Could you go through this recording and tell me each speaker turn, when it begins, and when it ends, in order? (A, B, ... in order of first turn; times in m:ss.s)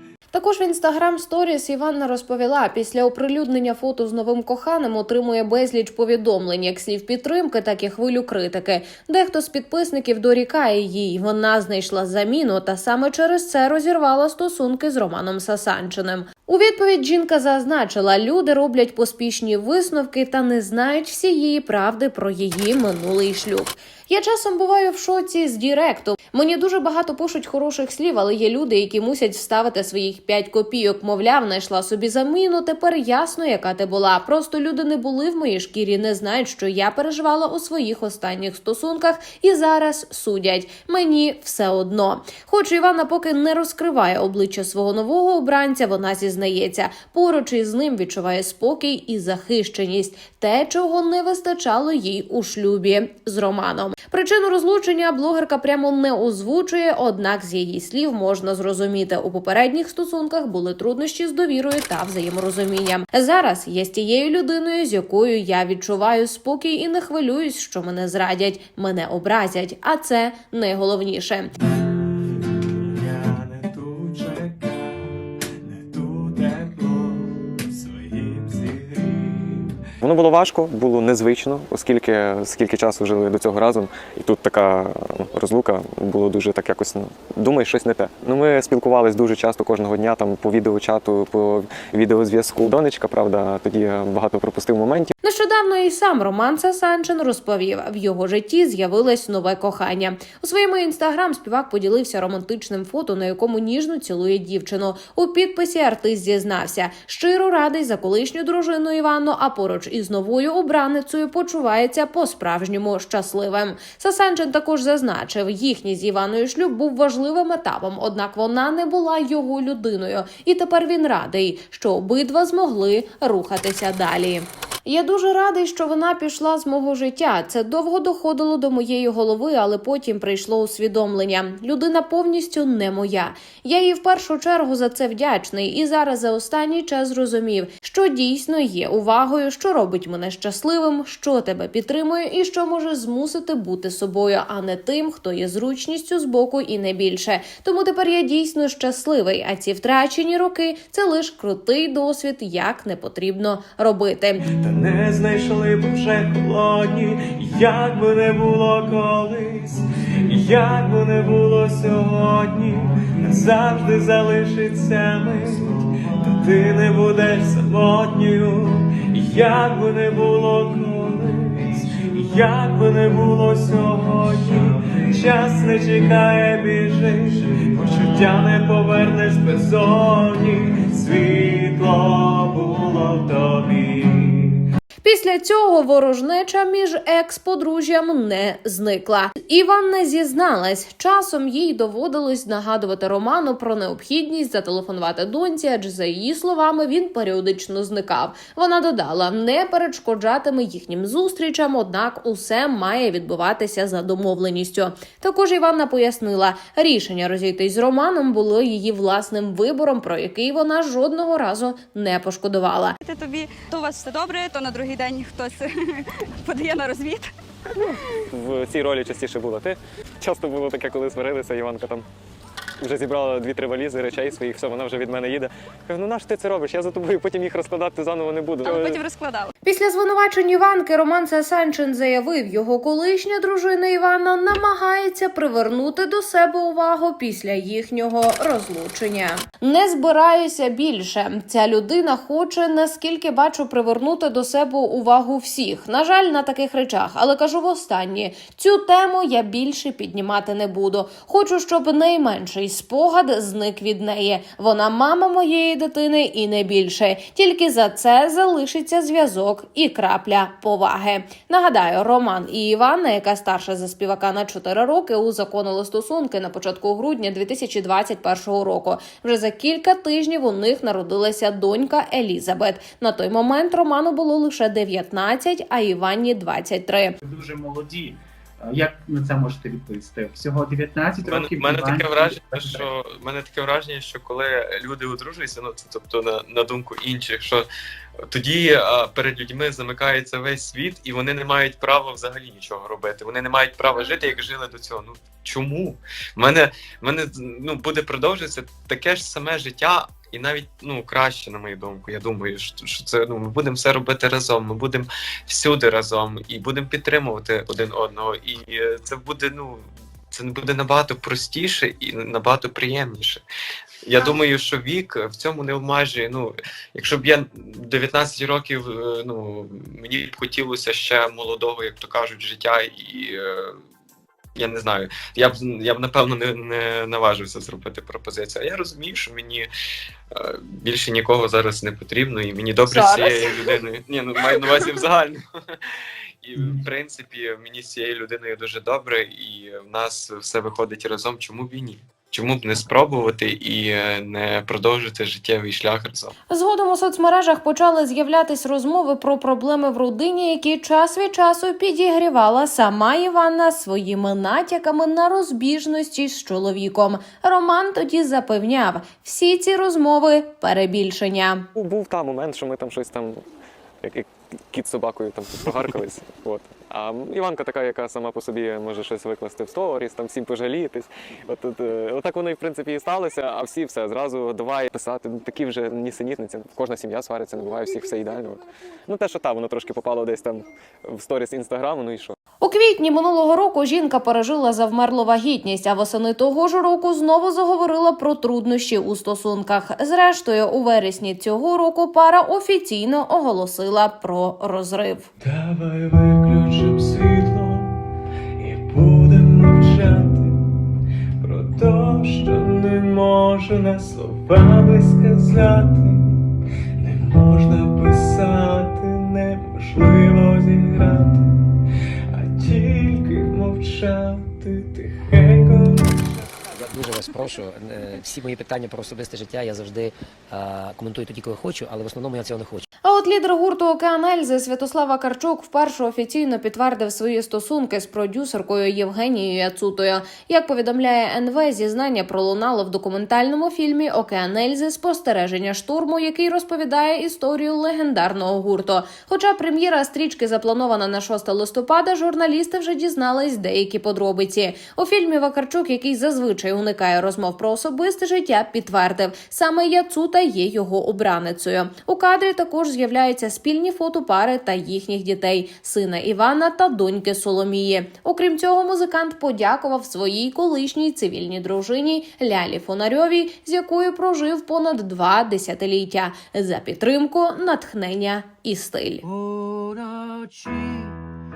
0:00.3-1:11.5 A
1:12.6-1:19.7 B
1:13.5-1:13.8 C
1:16.6-1:17.0 C
1:18.3-1:18.7 C
1:20.0-1:35.1 D
1:35.2-2:34.4 A
2:34.5-2:39.8 B
2:34.8-2:39.6 C
2:40.3-2:42.7 C
2:40.4-3:04.6 B
2:43.6-2:45.3 C
2:46.3-2:48.7 C
2:49.4-2:50.2 C
2:52.5-2:54.6 C
2:55.4-2:57.3 C
2:58.0-3:04.5 C
3:05.0-3:33.0 A
3:33.0-3:37.3 E
3:38.3-3:42.1 D
3:42.8-3:49.0 D
3:48.6-3:49.5 E
3:49.6-4:37.2 A
4:37.2-4:42.8 F
4:41.2-4:47.7 B
4:48.3-5:13.4 B
5:14.1-5:23.8 B
5:24.6-5:29.7 B
5:30.3-5:35.4 B
5:33.0-5:33.4 E
5:36.4-5:46.3 B
5:46.5-6:01.7 A
6:01.8-6:03.4 D
6:04.0-6:22.4 D
6:22.6-6:35.3 A
6:35.4-6:37.8 B
6:35.5-6:37.8 C
6:38.6-6:40.4 B
6:38.7-6:40.5 C
6:41.4-6:46.2 C
6:41.8-6:46.0 B
6:47.0-6:49.0 B
6:47.0-6:51.3 C
6:49.6-6:50.7 B
6:52.4-6:55.8 C
6:52.6-6:54.6 B
6:55.3-6:55.8 B
6:56.7-7:02.8 G
7:03.0-7:49.2 A
7:49.3-7:51.2 H